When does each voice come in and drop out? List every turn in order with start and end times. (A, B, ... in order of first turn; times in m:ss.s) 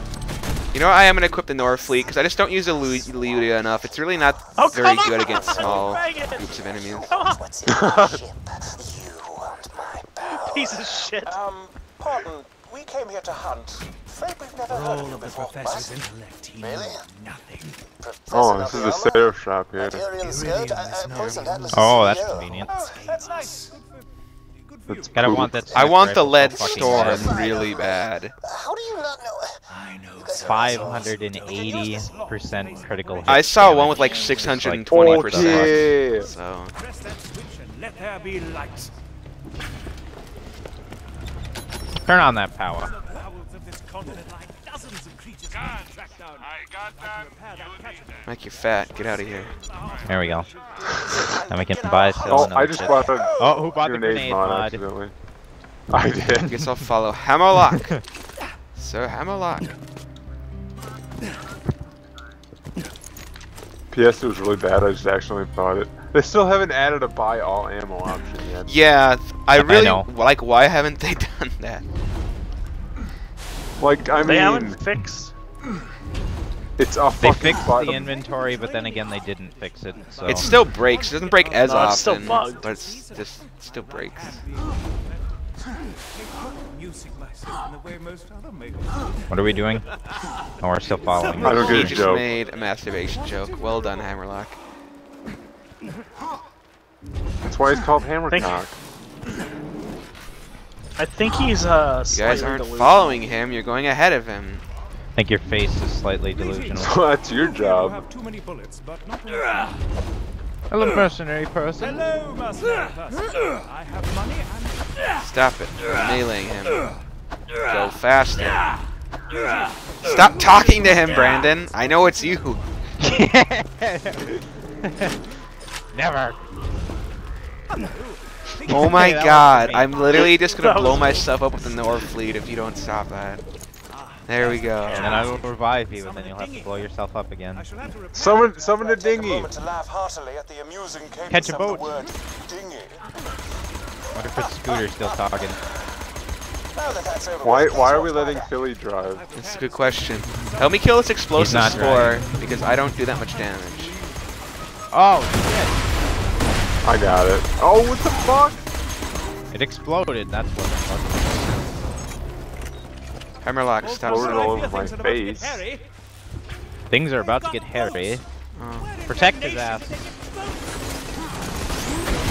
0:00.7-0:07.2 A
0:01.8-0:16.0 B
0:04.6-0:07.4 C
0:07.7-0:08.2 D
0:10.3-0:11.4 C
0:14.7-0:17.8 E
0:16.6-0:17.1 B
0:18.0-0:23.7 B
0:18.3-0:20.0 D
0:20.2-0:27.7 E
0:21.1-0:21.4 A
0:21.7-0:22.7 F
0:24.9-0:25.7 D
0:25.1-0:27.4 F
0:25.8-0:28.3 A
0:26.8-0:29.6 B
0:29.7-0:34.8 E
0:30.2-0:32.3 B
0:30.4-0:35.9 F
0:33.3-0:36.7 A
0:34.9-0:36.3 D
0:36.0-0:38.9 E
0:42.1-0:42.9 F
0:42.8-0:51.1 E
0:48.3-0:49.6 A
0:50.0-0:50.5 F
0:51.0-0:53.7 B
0:51.5-0:54.8 F
0:52.3-0:55.1 D
0:55.9-0:56.6 D
0:56.4-0:58.0 A
0:58.8-0:59.7 A
1:03.9-1:08.8 D
1:08.7-1:11.8 A
1:09.6-1:10.1 F
1:13.8-1:14.8 D
1:14.2-1:15.3 C
1:16.8-1:18.1 D
1:17.2-1:20.5 F
1:17.4-1:25.2 E
1:20.3-1:24.4 A
1:21.6-1:22.7 C
1:26.1-1:30.1 E
1:29.3-1:29.9 F
1:30.6-1:32.0 F
1:30.8-1:34.1 E
1:31.4-1:32.3 D
1:31.4-1:34.6 A
1:37.4-1:38.8 D
1:38.3-1:38.6 C
1:41.0-1:43.2 C
1:42.1-1:44.6 A
1:45.2-1:47.0 F
1:46.3-1:49.8 E
1:46.8-1:48.0 D
1:50.7-1:52.1 F
1:51.8-1:54.9 E
1:55.2-1:56.9 A
1:57.6-1:58.6 A
1:59.3-2:03.2 E
2:00.0-2:02.6 A
2:03.0-2:05.2 F
2:05.9-2:06.4 F
2:07.7-2:12.1 E
2:08.7-2:10.0 F
2:08.7-2:13.4 A
2:10.2-2:11.2 C
2:13.9-2:16.9 E
2:14.3-2:15.2 A
2:14.9-2:17.6 F
2:17.5-2:18.8 E
2:18.1-2:19.5 D
2:18.8-2:23.0 B
2:21.3-2:22.0 F
2:24.1-2:25.6 F
2:24.3-2:25.4 B
2:26.8-2:28.5 B
2:27.4-2:29.2 D
2:29.0-2:34.6 E
2:29.4-2:34.0 A
2:31.4-2:32.2 F
2:34.9-2:35.8 F
2:36.8-2:38.6 D
2:37.9-2:38.7 E
2:39.5-2:41.6 F
2:43.4-2:44.7 A
2:43.8-2:45.9 E
2:44.0-2:45.6 D
2:46.9-2:48.2 F
2:47.1-2:50.7 E
2:48.6-2:48.9 A
2:49.1-2:50.1 F